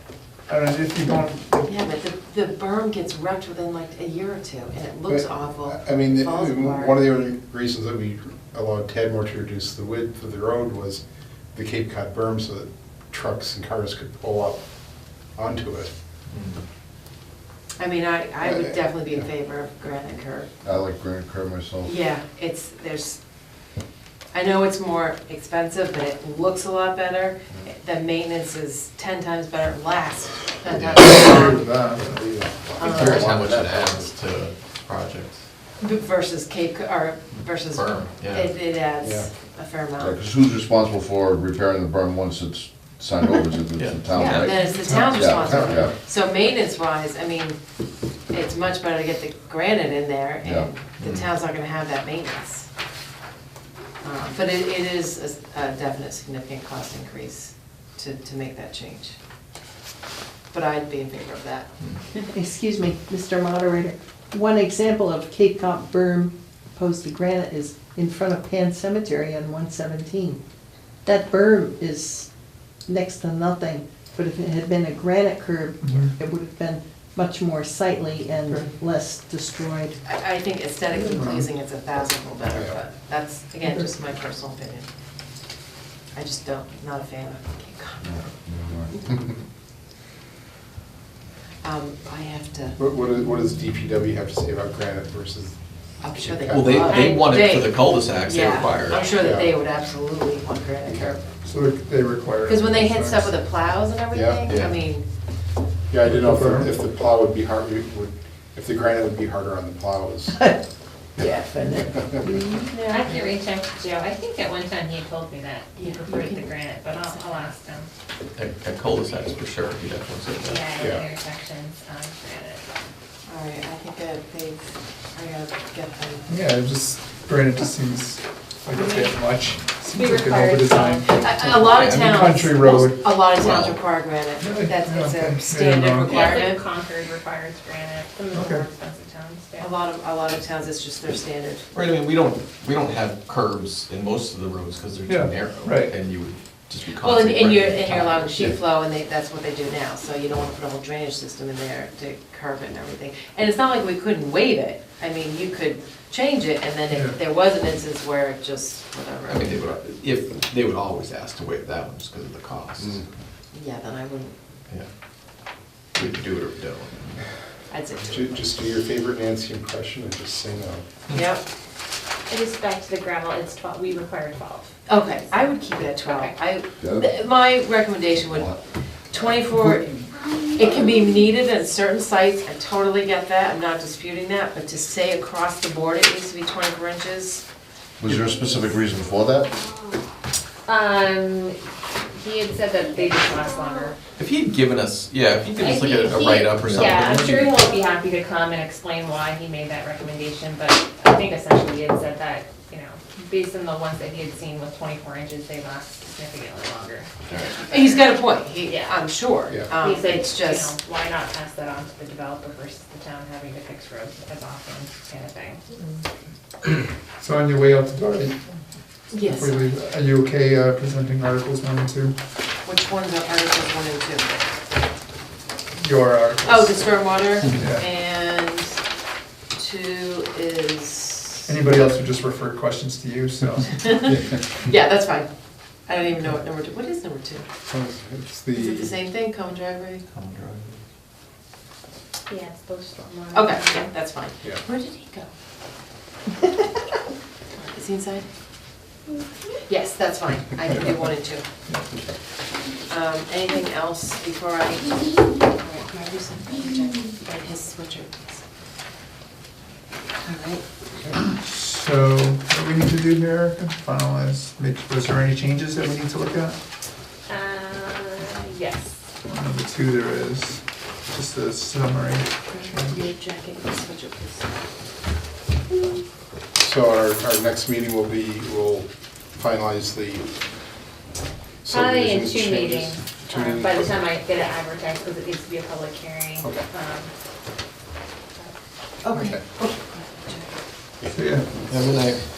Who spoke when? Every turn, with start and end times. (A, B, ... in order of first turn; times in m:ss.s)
0:00.5-0:01.7 A
0:01.6-0:07.0 B
0:05.0-0:11.0 C
0:11.5-0:14.6 C
0:15.4-0:15.9 C
0:16.3-0:16.6 D
0:17.8-0:20.5 B
0:18.4-0:18.7 C
0:20.6-0:21.9 E
0:21.8-0:23.2 B
0:24.3-0:31.6 B
0:30.7-0:31.2 D
0:31.0-0:32.2 A
0:31.4-0:34.1 C
0:32.8-0:33.3 B
0:32.8-0:35.4 D
0:35.8-0:40.1 B
0:37.7-0:38.5 D
0:39.0-0:39.3 C
0:40.0-0:45.9 E
0:43.8-0:45.0 D
0:44.2-0:47.6 B
0:48.3-0:52.7 B
0:50.4-0:50.7 E
0:51.0-0:51.3 D
0:54.0-0:59.2 B
1:00.5-1:01.7 B
1:02.3-1:10.4 F
1:11.0-1:12.3 F
1:12.9-1:20.0 F
1:15.8-1:16.1 A
1:20.0-1:24.9 B
1:21.0-1:21.5 A
1:22.5-1:22.8 C
1:23.6-1:23.9 A
1:26.1-1:28.2 B
1:28.0-1:28.9 E
1:31.6-1:32.8 B
1:32.8-1:35.5 C
1:36.0-1:41.2 B
1:36.1-1:36.9 C
1:36.5-1:39.1 D
1:36.9-1:37.4 G
1:39.2-1:39.5 C
1:40.8-1:41.2 C
1:41.4-1:43.4 A
1:42.5-1:45.0 B
1:44.1-1:44.5 C
1:44.5-1:44.8 D
1:45.9-1:50.4 C
1:46.0-1:46.7 A
1:51.2-1:52.8 F
1:52.6-1:53.3 B
1:52.8-1:57.9 G
1:55.8-1:56.3 B
1:58.4-2:00.7 D
2:00.4-2:02.6 G
2:00.8-2:01.1 C
2:03.3-2:06.3 B
2:06.3-2:13.2 A
2:08.8-2:09.1 G
2:09.8-2:11.2 G
2:11.2-2:16.6 B
2:11.7-2:12.0 D
2:13.3-2:13.8 D
2:14.4-2:16.3 A
2:16.0-2:19.8 G
2:18.3-2:18.6 A
2:19.6-2:21.6 B
2:21.7-2:28.5 D
2:25.0-2:25.9 A
2:27.0-2:39.6 B
2:36.9-2:37.2 A
2:39.3-2:43.0 D
2:43.5-2:44.3 B
2:45.9-2:47.2 D
2:47.7-2:48.5 B
2:48.1-2:50.8 C
2:51.1-2:51.4 B
2:52.3-2:56.3 G
2:54.9-2:58.6 B
2:56.8-2:57.1 E
2:58.3-2:58.6 E
2:59.1-3:00.0 B
3:00.5-3:07.4 B
3:08.0-3:09.6 E
3:10.6-3:14.0 G
3:14.2-3:17.6 D
3:15.6-3:35.6 G
3:16.7-3:17.2 E
3:27.3-3:27.6 D
3:27.7-3:30.7 B
3:37.2-3:38.4 A
3:39.1-3:39.7 B
3:39.2-3:42.1 A
3:42.6-3:44.5 B
3:45.8-3:46.8 A
3:46.4-3:48.8 B
3:47.5-3:47.8 A
3:49.5-3:51.5 B
3:51.4-3:54.1 A
3:53.7-3:55.3 B
3:55.9-3:57.4 B
3:57.7-3:58.9 C
3:58.5-4:00.0 B
4:00.1-4:00.8 D
4:02.3-4:03.9 G
4:03.3-4:05.3 B
4:07.6-4:08.2 B
4:09.7-4:11.4 B
4:10.6-4:11.1 A
4:12.9-4:18.4 B
4:20.2-4:20.6 B
4:21.3-4:26.6 A
4:27.3-4:29.1 G
4:29.2-4:33.0 A
4:32.5-4:34.5 B
4:36.6-4:40.3 C
4:41.6-4:44.0 C
4:41.6-4:47.1 G
4:46.4-4:46.7 C
4:49.0-4:50.5 B
4:49.1-4:49.4 C
4:51.1-4:51.5 A
4:51.7-4:52.2 D